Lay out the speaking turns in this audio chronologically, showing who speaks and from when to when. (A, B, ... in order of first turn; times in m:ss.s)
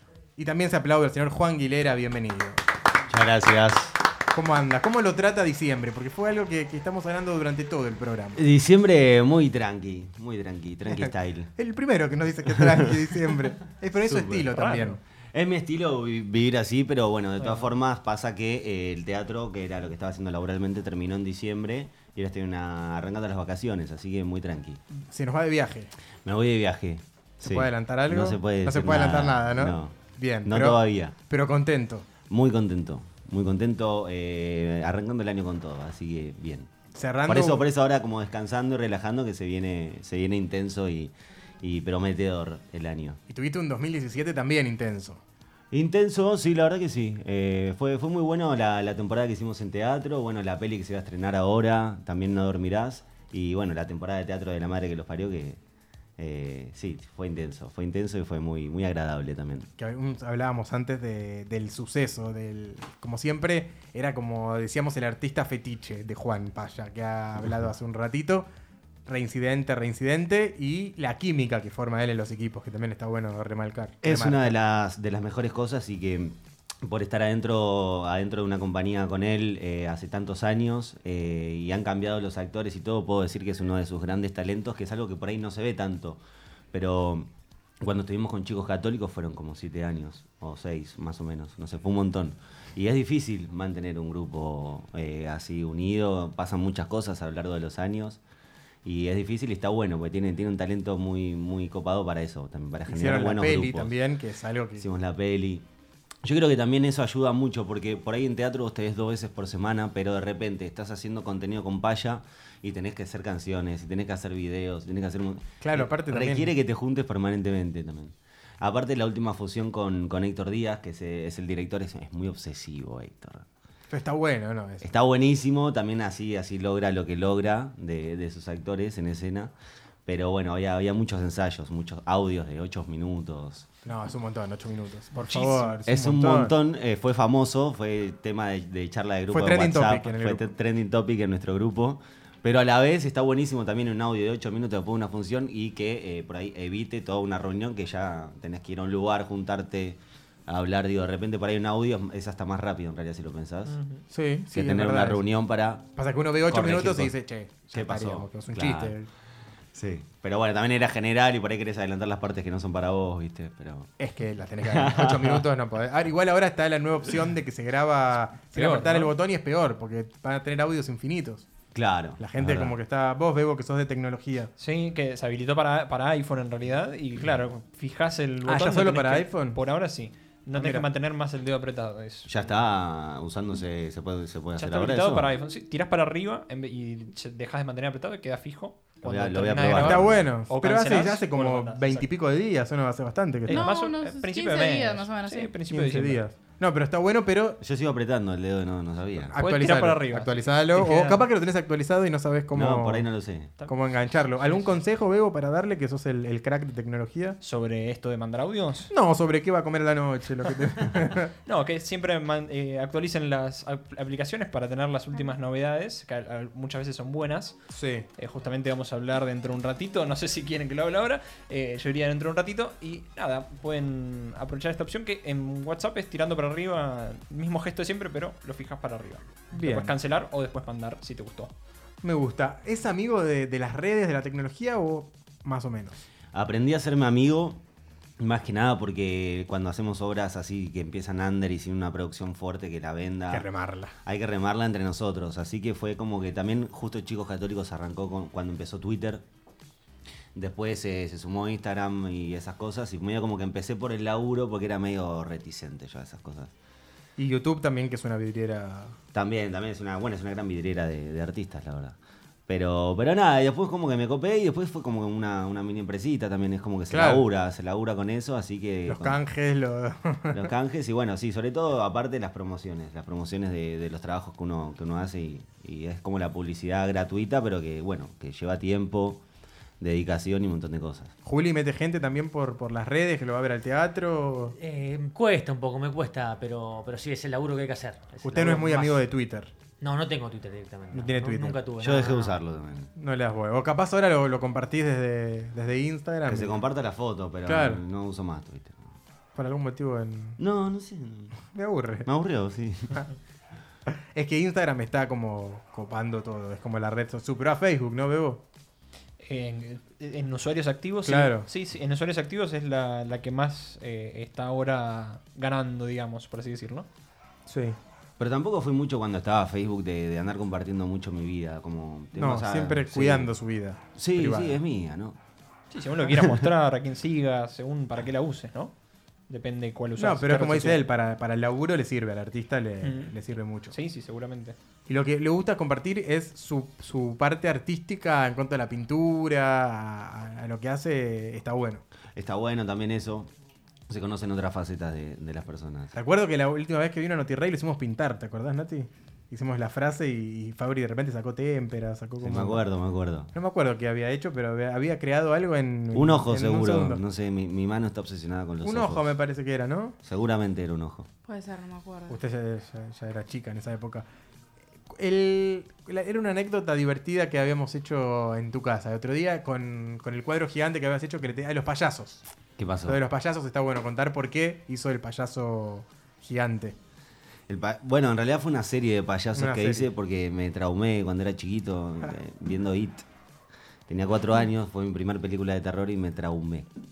0:00.4-0:02.6 A
0:03.1-0:03.9 B
0:04.3-0:08.4 A
0:08.4-0:11.5 B
0:11.0-0:15.0 A
0:12.5-0:13.3 B
0:14.0-0:14.5 B
0:14.5-0:15.0 C
0:15.3-0:24.8 B
0:25.0-0:25.9 A
0:26.2-0:31.1 B
0:27.4-0:32.0 A
0:32.3-0:36.7 B
0:36.9-0:37.6 A
0:37.2-0:43.2 B
0:43.3-0:45.2 A
0:45.7-0:55.6 B
0:56.2-0:59.7 B
0:59.8-1:08.5 A
1:09.0-1:14.5 A
1:14.0-1:26.2 B
1:26.7-1:27.3 B
1:27.8-1:38.2 B
1:38.8-1:43.9 B
1:42.9-1:44.9 A
1:44.8-1:45.6 B
1:46.2-2:03.4 B
1:55.6-1:56.5 A
2:03.9-2:04.9 A
2:04.8-2:09.5 B
2:10.0-2:13.7 B
2:13.8-2:16.5 A
2:15.3-2:15.7 C
2:15.8-2:33.8 B
2:19.3-2:20.5 A
2:33.7-2:34.0 C
2:34.1-2:35.2 A
2:34.5-2:35.8 B
2:36.0-2:39.1 A
2:36.4-2:37.1 B
2:37.7-2:39.0 B
2:39.7-2:43.9 B
2:44.0-2:51.4 A
2:44.7-2:45.4 B
2:48.5-2:49.1 C
2:51.7-2:52.8 B
2:52.2-2:54.5 A
2:54.6-3:02.3 C
2:58.4-2:59.6 A
3:00.5-3:00.9 A
3:02.2-3:05.3 B
3:04.6-3:12.1 C
3:09.0-3:10.2 B
3:09.7-3:13.7 A
3:13.5-3:16.2 C
3:13.5-3:15.5 D
3:15.7-3:17.6 A
3:17.6-3:19.3 B
3:19.3-3:23.1 A
3:19.3-3:21.3 C
3:22.5-3:23.5 B
3:23.6-3:27.4 A
3:24.4-3:24.8 C
3:27.4-3:28.9 C
3:28.9-3:31.3 A
3:31.4-3:51.5 C
3:37.7-3:38.1 A
3:49.5-3:49.9 A
3:52.0-3:56.0 A
3:56.3-3:57.6 B
3:58.2-4:03.5 B
4:03.3-4:03.9 A
4:04.0-4:09.2 B
4:10.3-4:16.5 B
4:17.2-4:19.0 A
4:19.1-4:29.2 B
4:26.9-4:27.2 A
4:28.9-4:30.5 A
4:30.3-4:39.2 B
4:39.8-4:41.1 B
4:41.2-4:44.5 A
4:44.6-4:49.0 E
4:48.2-4:49.5 A
4:49.8-4:52.4 E
4:50.9-4:51.6 A
4:51.8-4:52.9 B
4:53.0-4:56.6 A
4:56.3-4:58.9 B
4:57.4-4:57.8 A
4:59.3-5:00.4 A
5:00.4-5:01.4 B
5:01.5-5:02.1 A
5:02.0-5:03.0 B
5:03.9-5:08.4 A
5:09.2-5:16.9 C
5:11.0-5:11.5 A
5:17.5-5:17.8 A
5:18.2-5:23.3 B
5:22.1-5:24.6 A
5:23.9-5:25.2 B
5:25.7-5:28.7 C
5:26.0-5:26.5 B
5:29.3-5:30.8 C
5:30.0-5:33.8 A
5:32.8-5:33.1 C
5:33.7-5:34.6 C
5:34.9-5:41.8 A
5:42.1-5:43.3 B
5:43.9-5:45.9 B
5:45.9-5:52.6 A
5:52.2-5:53.3 B
5:53.3-5:57.0 A
5:55.9-5:59.1 B
5:58.6-6:00.0 A
6:00.0-6:01.1 B
6:01.2-6:02.2 D
6:02.1-6:04.0 A
6:04.9-6:12.2 A
6:12.6-6:13.0 B
6:12.8-6:16.7 A
6:17.5-6:23.0 B
6:19.3-6:19.9 A
6:23.9-6:26.7 B